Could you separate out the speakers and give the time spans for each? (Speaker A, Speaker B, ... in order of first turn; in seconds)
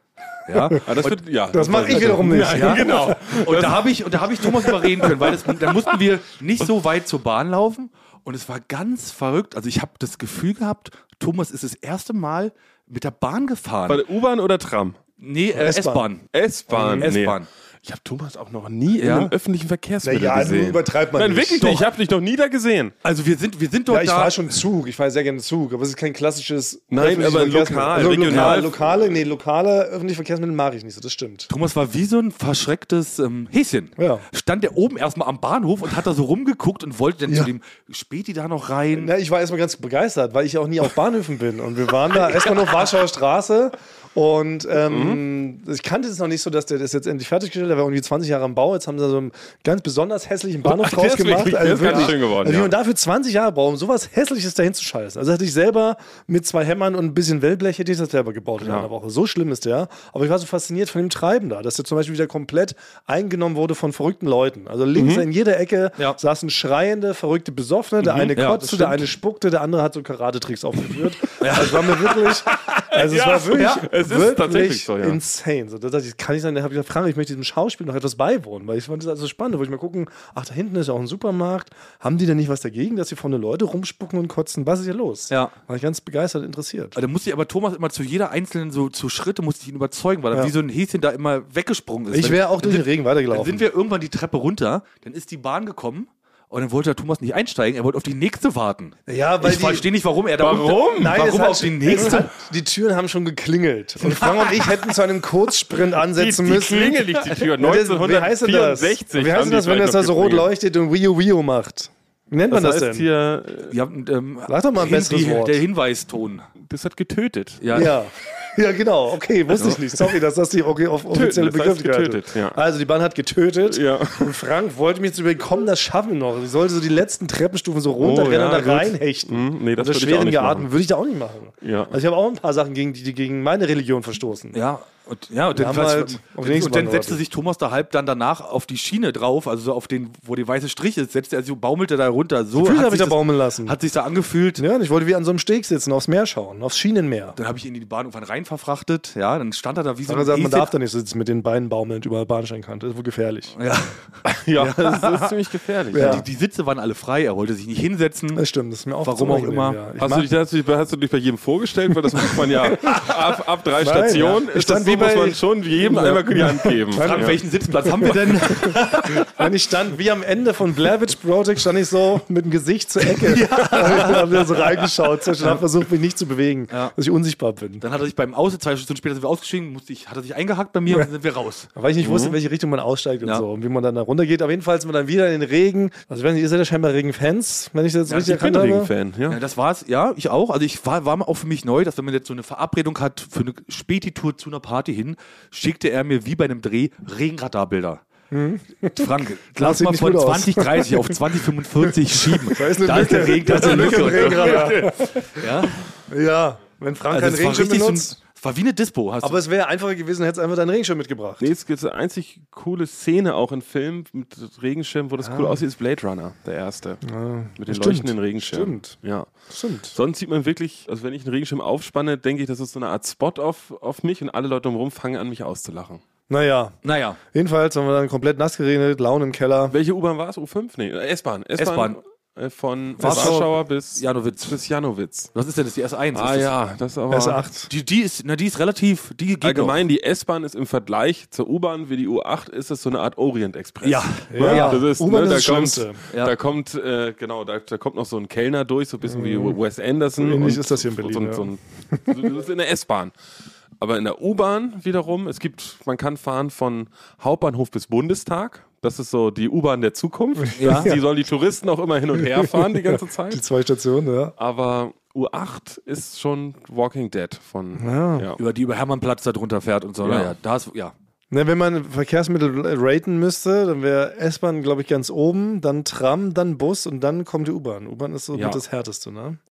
Speaker A: 0.5-1.2, 1.8-14.0, 15.2-16.2, 17.0-17.5, 19.0-19.3, 23.0-24.4, 28.3-28.6, 31.5-39.1, 51.8-52.1, 68.3-69.0, 71.4-72.3, 73.5-73.8, 87.0-102.3, 113.7-116.5, 117.6-117.9, 134.5-144.6, 147.3-150.7, 153.6-154.0, 154.6-155.3, 155.9-158.4, 159.0-159.8, 166.9-169.4, 173.2-174.7, 177.8-181.7, 189.3-198.0, 198.9-205.8, 207.1-209.4, 226.8-227.2, 231.6-232.0, 233.0-234.6, 235.3-236.5, 237.7-239.8, 243.8-244.8, 260.6-260.9, 268.4-270.9
Speaker B: 0.8-3.9, 13.9-15.0, 16.3-22.9, 26.9-29.2, 44.9-45.2, 50.6-52.7, 58.6-58.9, 64.9-65.3, 68.0-68.3, 72.6-75.2, 100.4-101.2, 106.0-110.5, 112.5-113.7, 116.7-117.6, 119.5-120.1, 121.1-122.6, 123.6-124.3, 128.0-130.7, 131.6-131.9, 154.2-156.2, 160.0-167.4, 182.0-182.4, 188.1-189.4, 203.5-204.9, 211.4-217.0, 217.6-226.0, 229.7-235.3, 236.1-237.4, 239.4-253.1, 253.8-263.4, 264.4-268.4, 270.0-270.3, 278.3-278.6
Speaker C: 1.5-3.5, 15.6-16.0, 16.7-17.1, 20.0-21.9, 23.9-31.5, 34.0-34.2, 38.9-87.0, 92.1-93.6, 99.1-99.9, 100.9-113.1, 114.5-115.6, 117.7-134.6, 135.5-137.2, 142.6-143.8, 144.6-147.4, 150.1-153.6, 155.9-156.2, 158.3-160.3, 162.7-163.1, 163.8-177.8, 181.7-188.9, 198.3-201.1, 202.1-205.4, 206.1-208.2, 209.2-211.5, 215.2-215.6, 217.1-220.0, 226.3-226.8, 227.3-229.7, 233.0-233.4, 237.1-237.7, 244.3-246.0, 249.1-249.6, 250.2-252.2, 260.6-261.0, 263.3-264.3, 267.8-268.3, 271.3-279.4